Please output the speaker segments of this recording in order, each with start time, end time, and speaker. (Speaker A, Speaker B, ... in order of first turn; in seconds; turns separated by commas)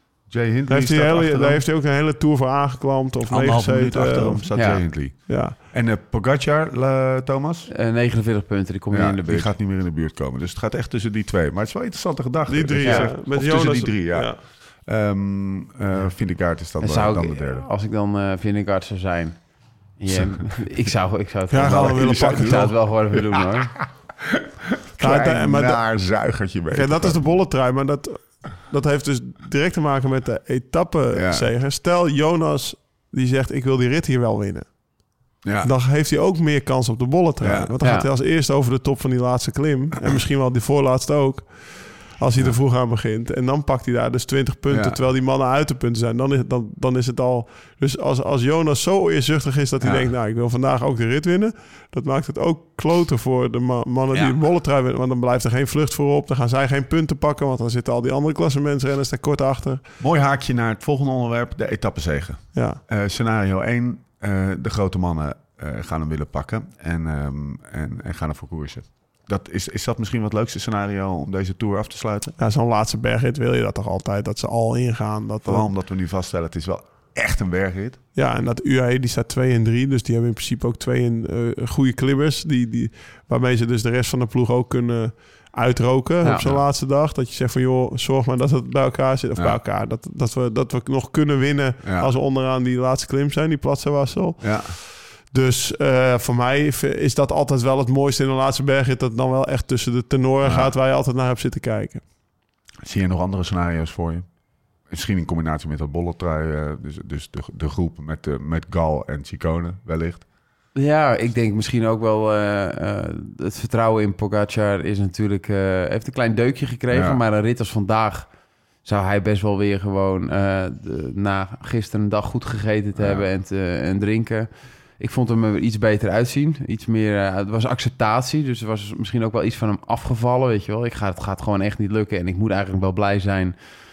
Speaker A: 0.3-1.6, Speaker B: 0.7-4.5, Speaker A: 3.3-7.7, Speaker C: 4.5-4.8, Speaker B: 5.2-5.6, Speaker C: 7.7-9.6, Speaker A: 8.9-14.3, Speaker B: 12.5-14.4, Speaker C: 12.8-13.1, Speaker A: 14.8-17.7, Speaker C: 16.8-19.4, Speaker C: 20.0-23.7, Speaker A: 20.1-20.5, Speaker B: 21.5-22.7, Speaker A: 21.6-22.7, Speaker A: 23.8-27.2, Speaker B: 25.0-25.8, Speaker B: 26.7-34.7, Speaker A: 31.1-31.5, Speaker A: 35.4-35.7, Speaker B: 35.6-59.8, Speaker A: 37.4-37.7, Speaker C: 37.8-38.1, Speaker A: 44.7-45.0, Speaker A: 49.8-50.1, Speaker A: 60.0-72.3, Speaker B: 62.5-62.8, Speaker B: 72.4-75.7, Speaker A: 75.5-78.0, Speaker B: 78.1-102.0, Speaker C: 86.2-86.5, Speaker A: 91.8-92.1, Speaker A: 94.4-94.8, Speaker A: 100.4-100.7, Speaker A: 102.8-104.2, Speaker A: 104.9-110.2, Speaker C: 110.7-118.3, Speaker A: 116.9-117.2, Speaker C: 118.8-133.6, Speaker A: 123.0-123.2